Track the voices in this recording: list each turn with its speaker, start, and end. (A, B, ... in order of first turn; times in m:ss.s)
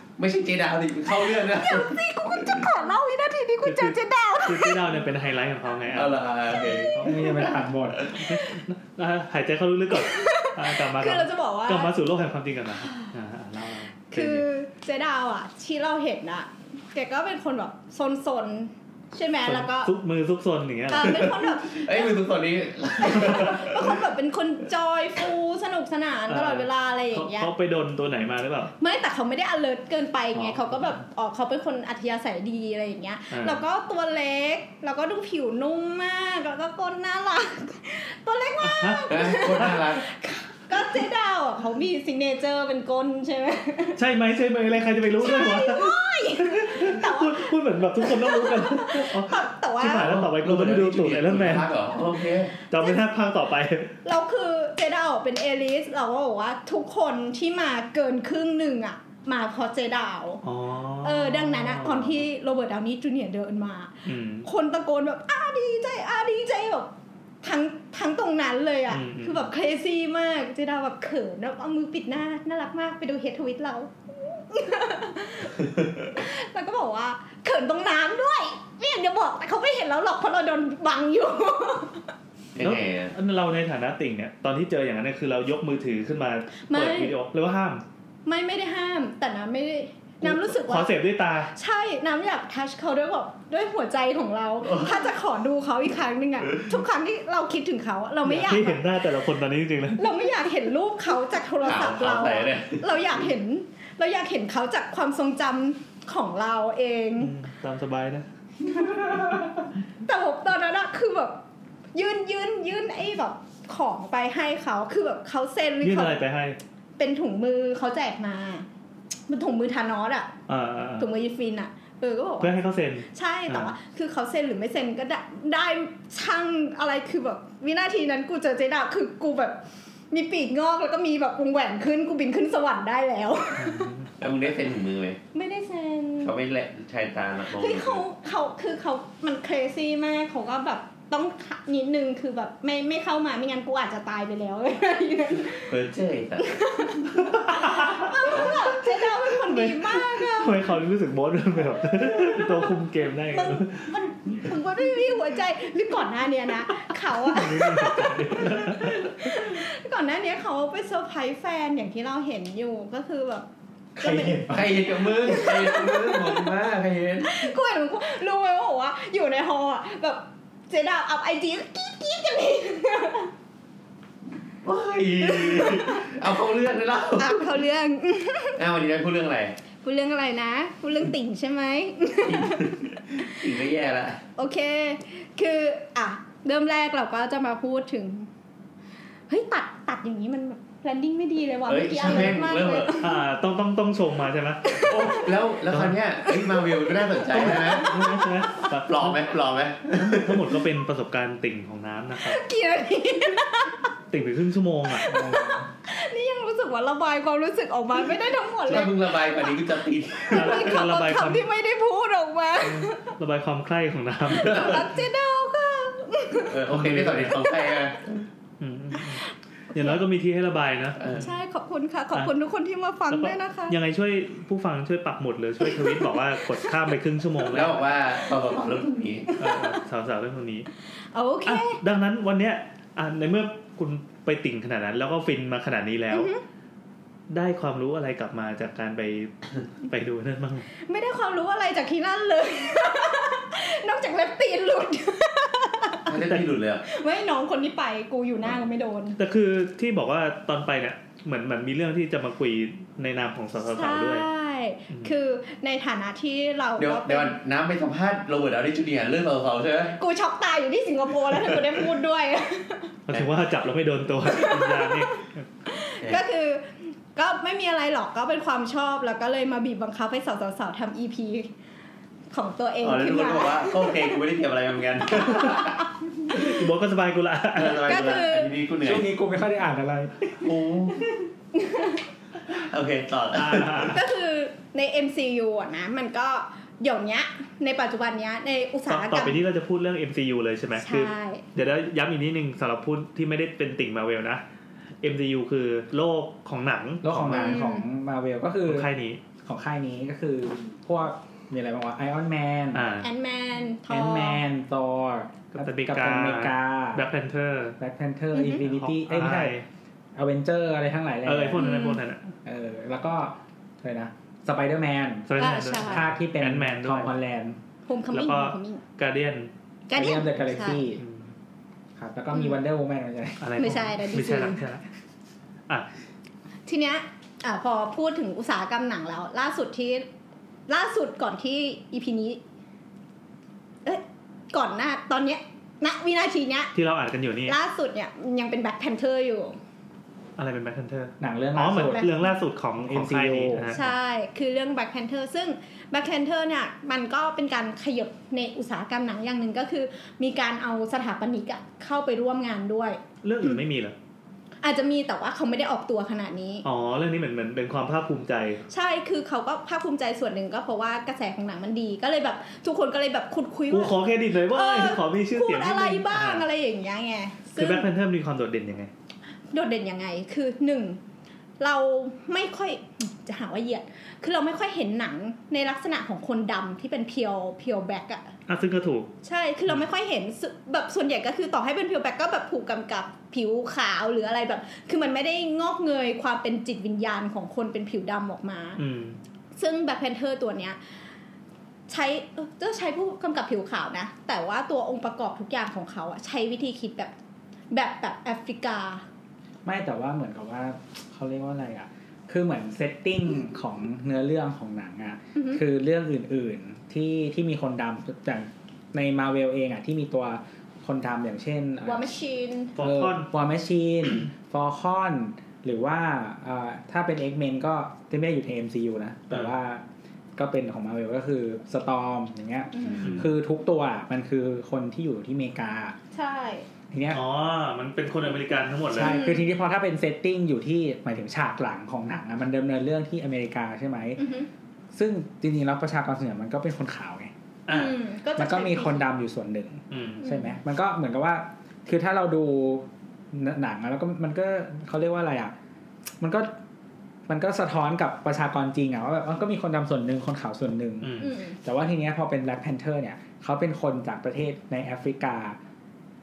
0:00.2-0:02.6 A
0:01.1-0:05.0 B
0:03.6-0:14.4 C
0:05.9-0:08.2 A
0:07.0-0:08.1 D
0:09.9-0:11.9 B
0:12.8-0:13.1 B
0:14.1-0:19.9 B
0:19.4-0:21.3 C
0:20.9-0:22.3 B
0:21.0-0:24.0 A
0:23.0-0:27.5 B
0:26.3-0:28.7 C
0:28.8-0:44.0 B
0:30.3-0:31.0 C
0:33.3-0:33.6 C
0:38.6-0:39.8 C
0:39.1-0:40.0 A
0:44.0-0:51.7 C
0:45.2-0:50.2 B
0:50.0-0:52.5 A
0:51.9-0:53.0 B
0:52.7-0:53.9 C
0:54.0-1:00.4 B
1:00.4-1:02.2 C
1:01.0-1:06.9 B
1:04.0-1:04.4 C
1:07.4-1:22.1 B
1:08.9-1:09.4 C
1:22.6-1:23.1 A
1:22.6-1:27.8 C
1:26.7-1:27.1 B
1:28.2-1:30.9 B
1:30.2-1:31.5 C
1:31.5-1:38.8 B
1:34.6-1:34.9 A
1:38.2-1:40.1 C
1:40.0-1:47.3 B
1:41.6-1:43.2 A
1:47.2-1:48.3 C
1:48.6-1:49.4 B
1:50.0-1:51.4 B
1:51.9-1:56.2 B
1:55.8-1:56.6 C
1:57.0-1:58.7 B
1:59.3-2:00.3 B
2:00.5-2:01.1 C
2:01.0-2:02.5 B
2:02.4-2:03.7 C
2:03.1-2:09.6 B
2:10.1-2:13.9 B
2:13.6-2:14.1 C
2:14.2-2:15.2 A
2:15.3-2:16.3 B
2:16.2-2:18.0 A
2:17.5-2:25.7 B
2:25.7-2:26.5 A
2:26.4-2:30.7 B
2:27.2-2:33.9 C
2:32.2-2:32.7 B
2:33.3-2:43.4 B
2:37.1-2:39.4 C
2:44.0-2:44.8 D
2:44.0-2:46.5 B
2:44.4-2:47.3 A
2:47.2-2:53.3 B
2:54.6-2:57.5 A
2:55.2-2:56.1 B
2:57.2-2:58.6 B
2:58.6-2:59.6 A
2:59.8-3:03.4 B
3:02.2-3:04.2 A
3:04.4-3:08.3 B
3:09.3-3:13.2 B
3:11.7-3:13.0 A
3:12.0-3:12.4 C
3:13.0-3:14.9 C
3:14.6-3:15.3 B
3:14.8-3:17.9 A
3:15.7-3:16.0 C
3:16.2-3:18.7 B
3:17.3-3:19.2 C
3:18.8-3:20.4 A
3:19.9-3:22.4 C
3:22.2-3:23.9 B
3:24.1-3:25.1 C
3:24.9-3:33.1 B
3:25.0-3:25.7 D
3:28.6-3:30.7 A
3:30.3-3:31.5 C
3:32.6-3:34.8 C
3:34.3-3:36.6 B
3:34.4-3:34.8 A
3:36.5-3:38.2 A
3:36.7-3:37.4 C
3:37.4-3:37.7 B
3:38.6-3:41.3 C
3:38.9-3:40.0 B
3:41.0-3:41.2 A
3:41.1-3:43.8 B
3:43.1-3:47.9 C
3:45.6-3:46.9 B
3:47.5-3:49.3 A
3:48.2-3:48.7 B
3:49.3-3:49.8 B
3:49.4-3:50.7 C
3:51.1-3:51.8 B
3:51.4-3:56.3 C
3:56.1-3:56.4 B
3:57.3-4:00.7 C
4:00.8-4:06.1 B
4:06.1-4:06.8 A
4:06.8-4:09.2 B
4:09.2-4:14.2 C
4:13.6-4:17.4 B
4:16.8-4:20.0 A
4:20.0-4:22.9 B
4:23.1-4:25.5 C
4:24.2-4:31.5 B
4:32.3-4:34.2 B
4:32.8-4:35.8 A
4:35.0-4:36.6 B
4:36.3-4:38.2 C
4:37.5-4:39.1 A
4:37.8-4:38.5 B
4:38.8-4:40.3 D
4:40.4-4:41.1 A
4:41.5-4:42.0 B
4:42.5-4:44.0 A
4:43.3-4:44.0 C
4:43.9-4:49.4 B
4:48.9-4:54.4 C
4:50.8-4:51.4 B
4:55.0-4:57.6 C
4:57.0-4:58.9 D
4:57.3-4:57.8 B
4:58.6-4:59.2 C
4:59.4-5:02.8 D
5:02.7-5:03.1 C
5:03.0-5:04.4 B
5:03.9-5:07.0 D
5:05.5-5:07.8 C
5:07.8-5:09.5 D
5:08.3-5:08.6 B
5:08.6-5:09.6 C
5:10.2-5:11.6 D
5:11.2-5:12.3 C
5:11.6-5:12.0 B
5:12.4-5:17.6 D
5:15.3-5:17.1 C
5:15.4-5:16.0 B
5:17.9-5:18.8 B
5:18.1-5:19.5 C
5:19.9-5:20.8 B
5:19.9-5:21.0 D
5:21.0-5:21.3 C
5:22.0-5:23.5 D
5:22.3-5:22.6 B
5:23.4-5:24.8 C
5:23.6-5:24.6 B
5:26.7-5:30.0 B
5:30.7-5:32.4 B
5:33.8-5:36.7 B
5:36.7-5:37.5 C
5:37.5-5:39.6 B
5:40.4-5:43.8 C
5:41.2-5:42.1 D
5:42.8-5:43.8 D
5:43.7-5:53.6 B
5:53.2-5:53.9 C
5:54.6-5:56.6 B
5:56.6-5:58.6 C
5:58.7-6:07.9 B
6:03.7-6:06.4 C
6:07.6-6:08.9 C
6:09.5-6:11.0 B
6:11.6-6:18.3 B
6:18.5-6:19.1 C
6:19.2-6:28.8 B
6:28.8-6:29.2 C
6:29.6-6:30.8 B
6:31.9-6:37.1 B
6:37.7-6:39.0 B
6:39.6-6:52.1 D
6:45.3-6:45.6 B
6:51.8-6:52.8 B
6:52.8-6:53.3 C
6:52.8-6:59.8 D
7:00.4-7:06.0 D
7:02.7-7:03.2 B
7:02.9-7:03.2 C
7:06.1-7:06.6 B
7:06.9-7:07.2 D
7:07.1-7:09.2 C
7:08.9-7:14.2 D
7:09.0-7:09.4 B
7:14.2-7:14.5 B
7:14.9-7:17.3 D
7:17.7-7:18.0 C
7:17.7-7:19.1 B
7:18.4-7:25.5 D
7:19.9-7:20.2 C
7:20.2-7:20.5 B
7:26.2-7:26.5 D
7:27.3-7:35.6 D
7:31.0-7:31.3 C
7:31.2-7:31.6 B